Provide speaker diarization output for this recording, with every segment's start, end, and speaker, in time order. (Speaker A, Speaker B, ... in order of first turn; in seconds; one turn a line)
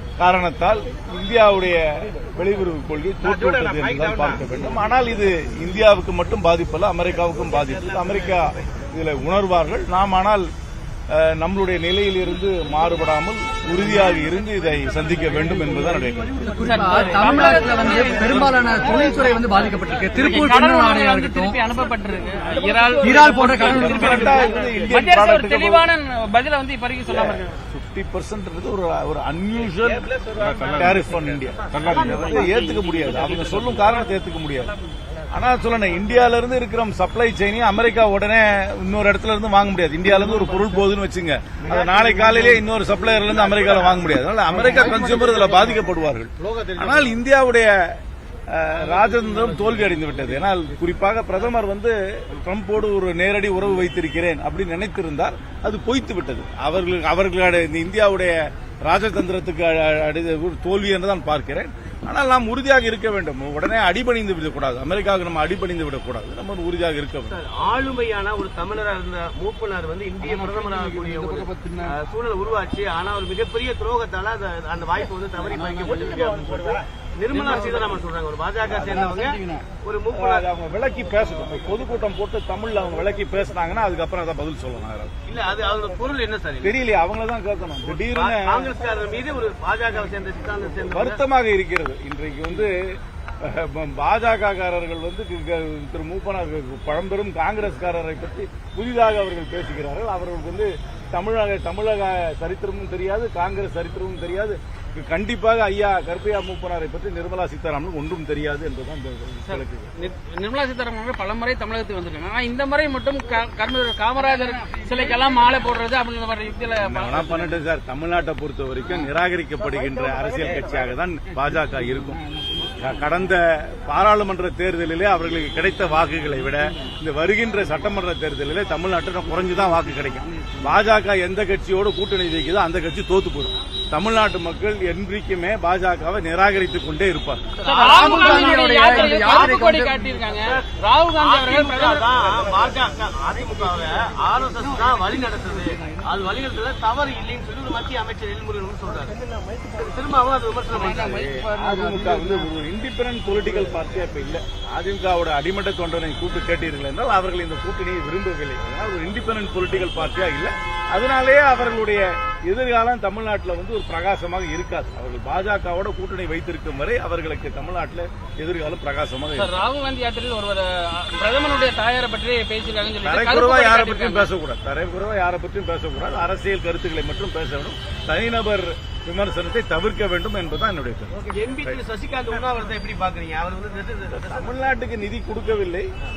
Speaker A: 0.2-10.5
Speaker A: 11.1-16.3
Speaker B: 16.6-18.5
Speaker C: 16.6-21.6
Speaker B: 20.2-27.5
Speaker C: 23.0-24.4
Speaker A: 23.7-25.8
Speaker A: 27.7-30.1
Speaker A: 30.7-34.7
Speaker A: 35.3-47.7
Speaker A: 48.5-58.4
Speaker A: 58.9-67.4
Speaker D: 67.3-80.5
Speaker A: 80.2-85.1
Speaker D: 85.3-86.7
Speaker A: 86.6-88.7
Speaker D: 88.0-91.2
Speaker A: 90.9-92.7
Speaker A: 93.4-109.9
Speaker B: 109.5-117.5
Speaker A: 116.9-122.2
Speaker A: 122.8-137.4
Speaker B: 137.6-142.1
Speaker D: 137.7-138.4
Speaker C: 137.7-140.1
Speaker D: 140.3-140.6
Speaker D: 141.2-151.3
Speaker A: 151.0-169.5
Speaker B: 169.4-174.3
Speaker A: 173.1-181.8
Speaker D: 181.3-184.5
Speaker A: 184.1-185.9